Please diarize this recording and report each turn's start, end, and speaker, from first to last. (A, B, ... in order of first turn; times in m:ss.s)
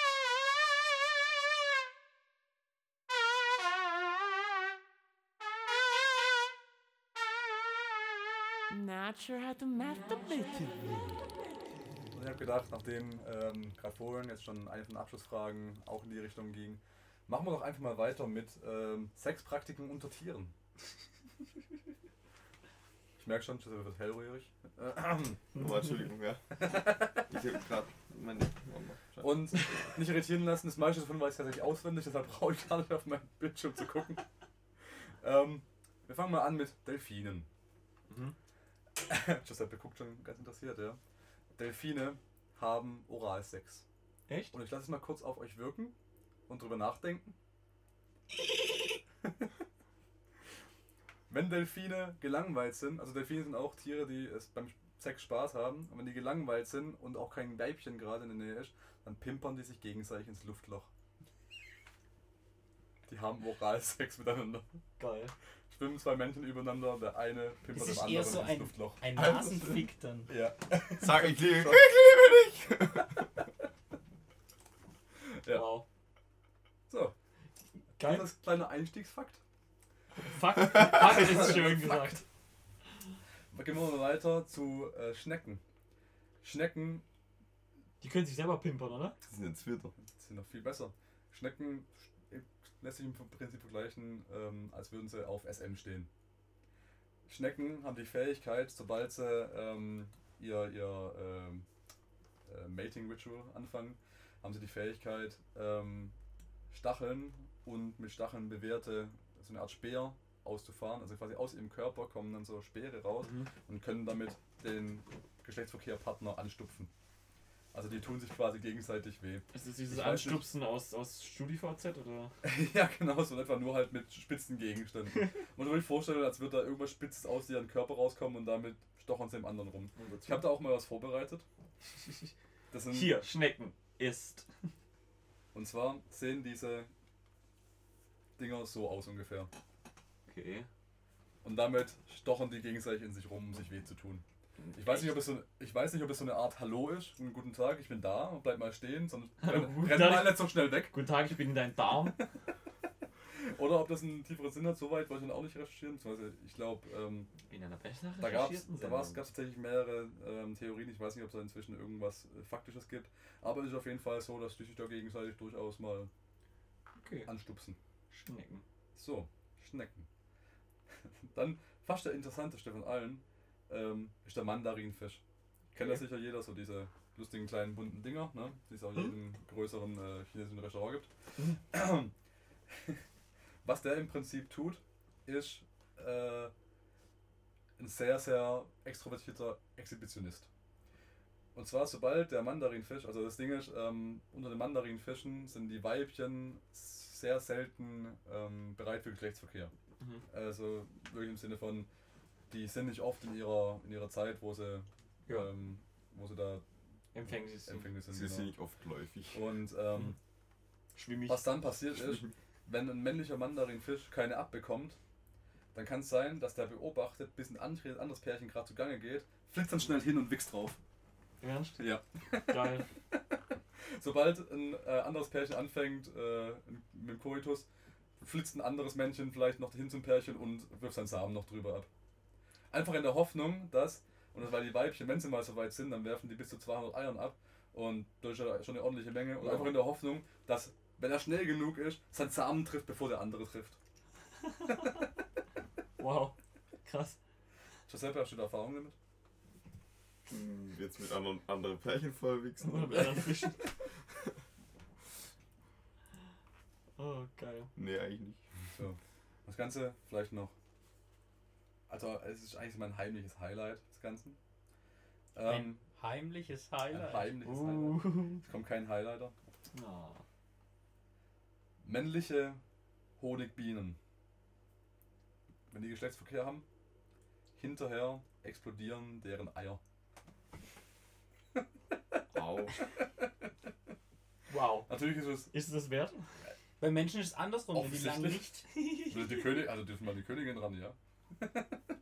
0:08.7-0:11.2 A
0:12.1-0:20.5 B
0:23.2-0:25.4 B
0:25.6-0:26.6 C
0:26.6-0:27.2 B
0:27.3-0:29.8 C
0:29.2-0:34.2 B
0:35.2-0:37.5 B
0:38.1-0:38.4 D
0:39.0-0:41.0 B
0:41.6-0:43.8 B
0:44.3-0:44.5 D
0:44.5-0:45.9 B
0:46.5-0:47.3 B
0:51.3-1:00.9 B
1:03.1-1:04.7 B
1:05.0-1:05.3 D
1:05.7-1:09.3 B
1:07.8-1:10.3 E
1:09.2-1:09.8 C
1:10.3-1:11.9 B
1:11.0-1:13.3 C
1:15.4-1:15.7 B
1:15.5-1:15.8 D
1:16.9-1:17.1 B
1:18.0-1:18.3 D
1:18.0-1:19.4 B
1:20.2-1:22.2 D
1:21.2-1:21.6 B
1:23.5-1:25.6 B
1:26.4-1:27.0 B
1:28.0-1:29.2 D
1:29.3-1:29.9 C
1:30.0-1:36.1 B
1:37.3-1:41.7 B
1:42.5-1:46.2 B
1:46.7-1:56.9 B
1:53.2-1:53.5 D
1:57.7-2:00.5 B
1:59.5-2:02.3 D
2:02.4-2:11.5 B
2:10.0-2:10.5 D
2:12.0-2:12.3 D
2:12.7-2:13.3 B
2:12.9-2:14.5 D
2:15.5-2:16.9 B
2:18.4-2:19.5 B
2:20.3-2:20.7 D
2:21.4-2:31.0 B
2:24.6-2:25.2 D
2:29.4-2:32.2 D
2:33.4-2:37.3 B
2:37.5-2:39.2 D
2:38.2-2:46.1 B
2:47.0-2:47.3 D
2:47.3-2:47.8 B
2:48.1-2:48.6 D
2:49.0-2:50.1 B
2:51.3-2:55.2 B
2:55.7-3:01.1 B
2:55.7-2:56.0 D
3:01.7-3:02.1 B
3:02.7-3:03.0 B
3:03.6-3:06.5 B
3:07.8-3:10.5 B
3:11.6-3:19.7 B
3:20.0-3:20.2 D
3:20.3-3:21.9 B
3:22.5-3:26.6 B
3:27.1-3:27.9 D
3:27.7-3:28.5 B
3:28.1-3:29.4 C
3:29.3-3:30.2 B
3:31.0-3:31.5 D
3:31.3-3:35.0 B
3:35.7-3:40.8 B
3:41.4-3:41.9 D
3:41.8-3:43.2 B
3:42.5-3:42.9 D
3:43.9-3:47.7 B
3:48.2-3:51.9 B
3:52.7-4:03.8 B
3:59.4-3:59.7 D
4:04.6-4:04.9 D
4:06.0-4:07.2 D
4:07.9-4:09.0 B
4:10.3-4:13.3 C
4:12.6-4:13.7 D
4:17.0-4:17.7 D
4:17.8-4:18.4 C
4:18.7-4:20.5 B
4:21.9-4:24.4 B
4:25.4-4:25.8 B
4:25.4-4:27.4 E
4:26.9-4:29.4 B
4:27.4-4:28.4 D
4:29.7-4:30.2 D
4:31.8-4:32.6 B
4:33.2-4:34.0 B
4:35.7-4:36.6 B
4:37.6-4:39.8 B
4:42.3-4:42.8 C
4:44.5-4:44.9 D
4:44.9-4:45.5 B
4:45.5-4:46.3 D
4:46.8-4:48.7 E
4:47.7-4:51.7 B
4:48.8-4:49.2 D